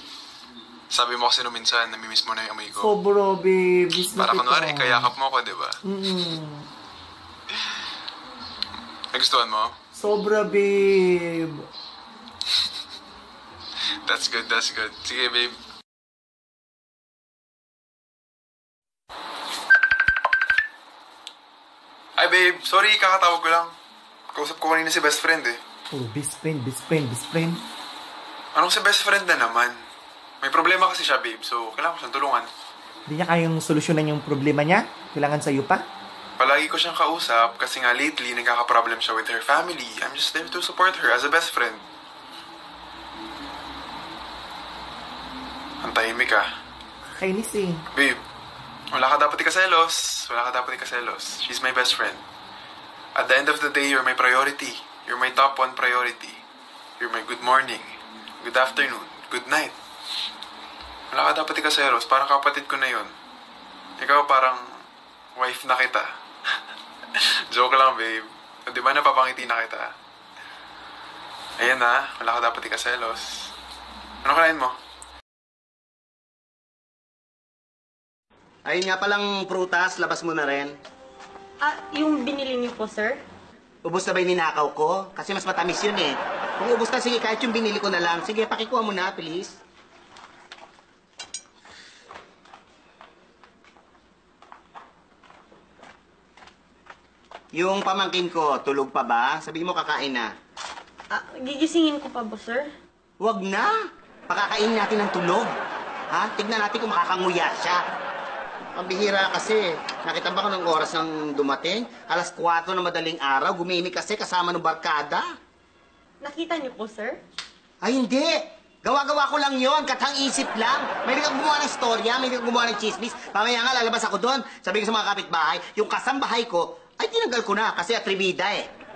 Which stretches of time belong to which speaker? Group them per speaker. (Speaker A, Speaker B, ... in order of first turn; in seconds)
Speaker A: 0.9-2.9, 4.2-5.8, 9.1-9.8, 14.0-15.6, 22.2-23.7, 24.3-25.6, 28.5-29.9, 30.4-32.5, 36.4-41.8, 45.8-46.5, 47.9-48.2, 48.9-52.2, 53.1-56.4, 57.0-59.8, 61.1-63.1, 64.0-64.6, 65.3-66.2, 67.1-69.9, 71.6-73.5, 74.2-74.8
Speaker B: 2.7-5.1, 5.8-6.7, 9.9-11.6, 25.9-27.6, 33.1-35.8, 47.1-47.9
Speaker C: 78.7-80.8, 83.8-89.6, 97.5-100.3, 103.2-103.7, 104.3-105.5, 106.1-107.8, 108.8-115.3, 117.8-128.7
Speaker D: 81.6-83.2, 101.1-102.7, 116.2-117.2